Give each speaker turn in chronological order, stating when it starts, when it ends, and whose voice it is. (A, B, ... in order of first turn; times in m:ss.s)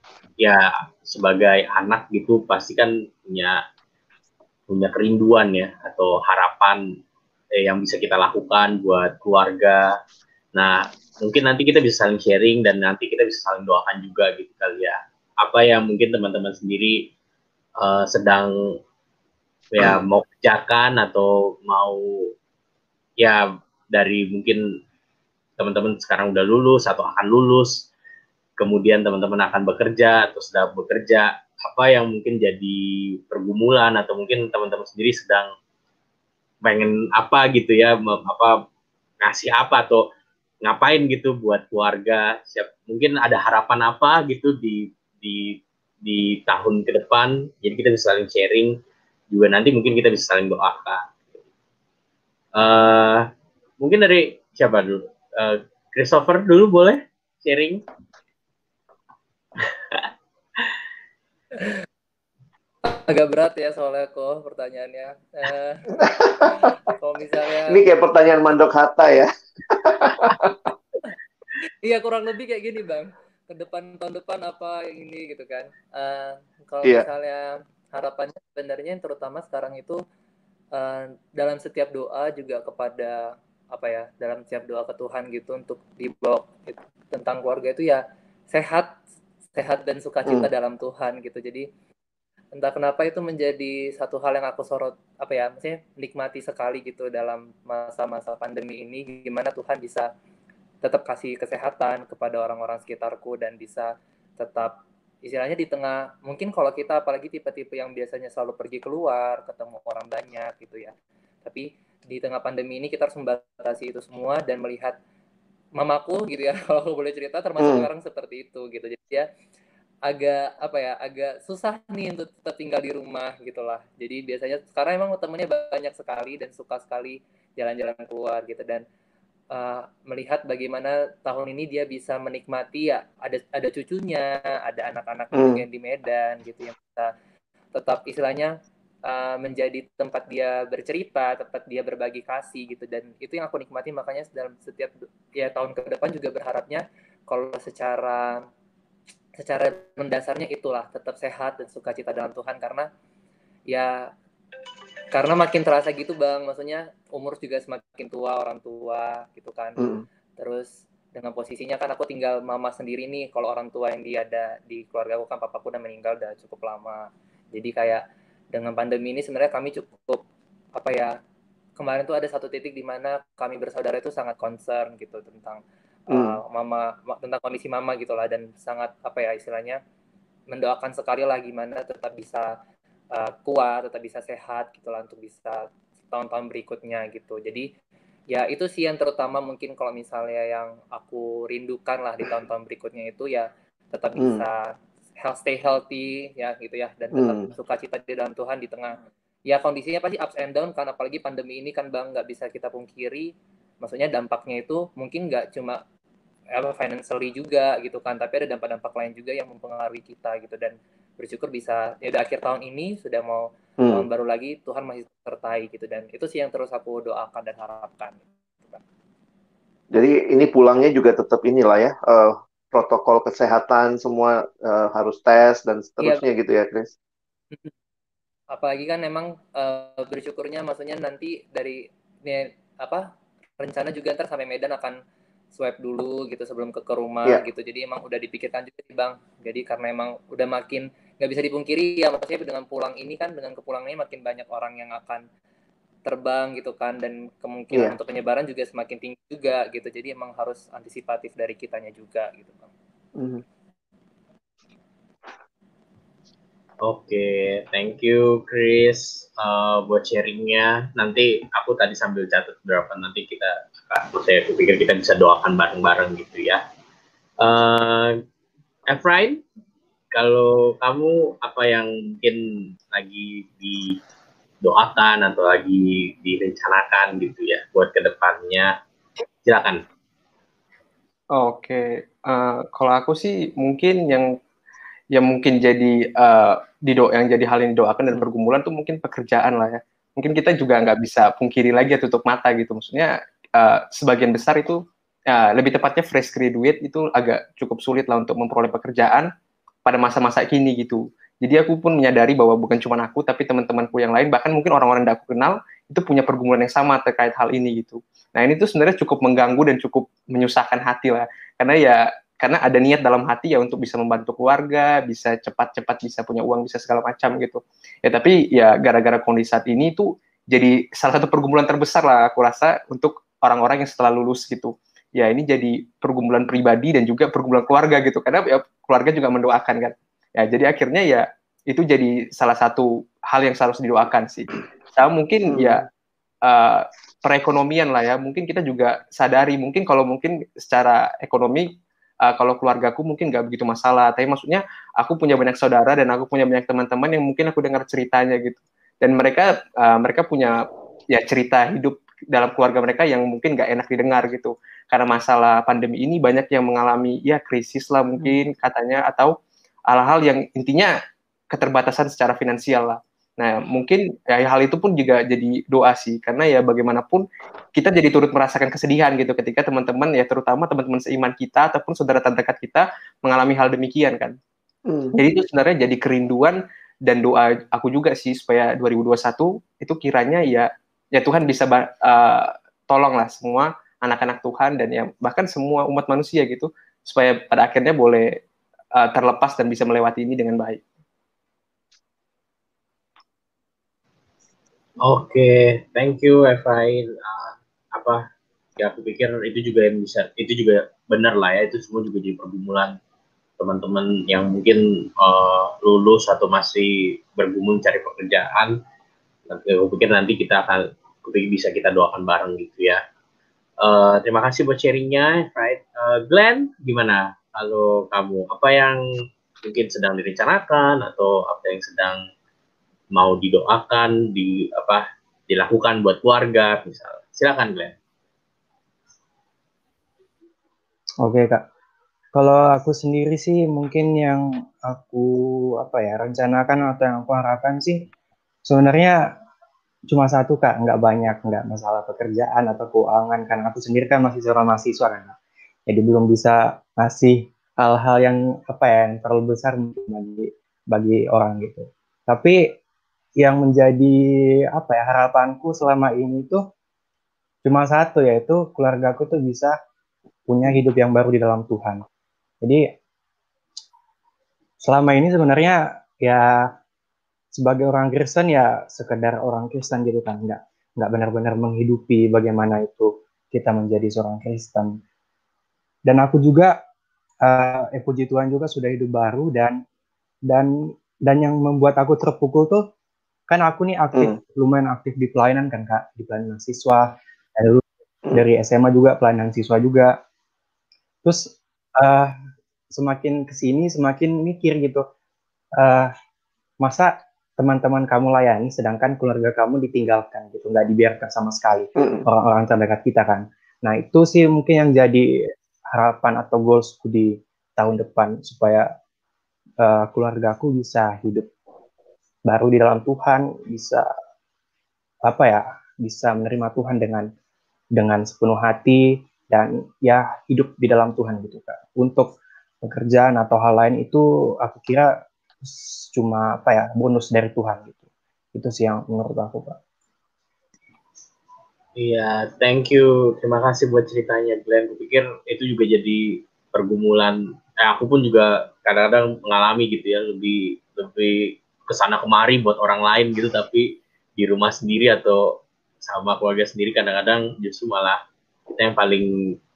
0:00.4-0:03.6 A
0:04.7-0:06.8 A
0:07.6-0:09.9 A
0:10.5-0:17.1 A
0:17.8-0:18.8 A
0:19.7-0:22.3 A
0:23.2-0:24.6 A
0:25.6-0:27.9 A
0:28.6-0:35.5 A
0:36.6-0:38.6 A
0:39.2-0:40.1 A
0:40.6-0:48.8 A
0:49.3-0:51.4 A
0:52.6-0:53.3 A
0:53.8-0:57.8 A
0:59.6-1:00.1 A
1:02.8-1:07.8 B
1:06.0-1:06.5 C
1:07.7-1:10.7 C
1:11.8-1:20.0 B
1:20.7-1:28.9 B
1:29.5-1:31.7 B
1:32.6-1:40.1 B
1:40.8-1:50.9 B
1:51.4-1:55.0 B
1:55.8-1:59.2 B
1:57.6-1:57.9 C
2:00.1-2:08.8 B
2:09.5-2:17.1 B
2:15.4-2:15.6 C
2:17.7-2:18.5 B
2:19.0-2:28.4 B
2:29.4-2:32.9 B
2:33.7-2:34.0 B
2:35.1-2:39.8 B
2:39.8-2:40.0 C
2:40.4-2:48.0 B
2:48.5-2:50.2 B
2:50.8-2:51.1 B
2:51.8-2:59.8 B
2:56.1-2:56.4 C
3:00.5-3:02.5 B
3:03.1-3:07.7 B
3:08.3-3:23.3 B
3:17.2-3:17.4 C
3:23.8-3:25.8 B
3:26.5-3:38.8 B
3:33.8-3:34.0 C
3:39.9-3:46.9 C
3:48.5-3:53.0 B
3:53.6-3:55.0 B
3:55.5-4:05.2 B
4:06.0-4:12.7 B
4:13.2-4:13.4 C
4:16.8-4:26.6 A
4:27.4-4:28.2 A
4:28.9-4:29.4 A
4:30.1-4:34.0 A
4:34.6-4:38.7 A
4:39.4-4:39.8 A
4:41.3-4:44.3 D
4:45.1-4:59.3 D
4:59.8-5:35.8 D
5:35.5-5:35.8 C
5:36.4-5:41.7 D
5:42.3-5:59.4 D
5:59.9-6:00.9 D
6:01.5-6:14.4 D
6:14.9-6:15.2 C
6:15.2-6:28.4 D
6:29.0-6:30.8 D
6:35.0-6:38.2 A
6:38.8-6:43.0 A
6:43.6-6:48.8 A
6:49.5-6:53.0 A
6:53.8-6:59.0 A
6:59.6-7:02.2 A
7:03.1-7:07.9 A
7:11.2-7:11.6 E
7:12.3-7:18.1 E
7:18.6-7:19.2 E
7:20.1-7:25.3 E
7:25.9-7:32.7 E
7:33.4-7:34.2 E
7:34.7-7:36.6 E
7:37.6-7:39.7 E
7:40.5-7:42.0 E
7:42.6-7:42.9 E
7:44.8-7:46.7 E
7:47.5-7:55.0 E
7:56.0-7:56.8 E
7:57.4-7:59.8 E
8:01.2-8:02.9 E
8:03.5-8:10.2 E
8:11.2-8:12.3 E
8:12.9-8:15.0 E
8:15.8-8:16.1 E
8:16.8-8:28.9 E
8:22.0-8:22.2 C
8:29.8-8:31.5 E
8:32.5-8:34.0 E
8:35.2-8:37.3 E
8:37.9-8:48.0 E
8:48.5-8:49.8 E
8:52.0-9:09.3 A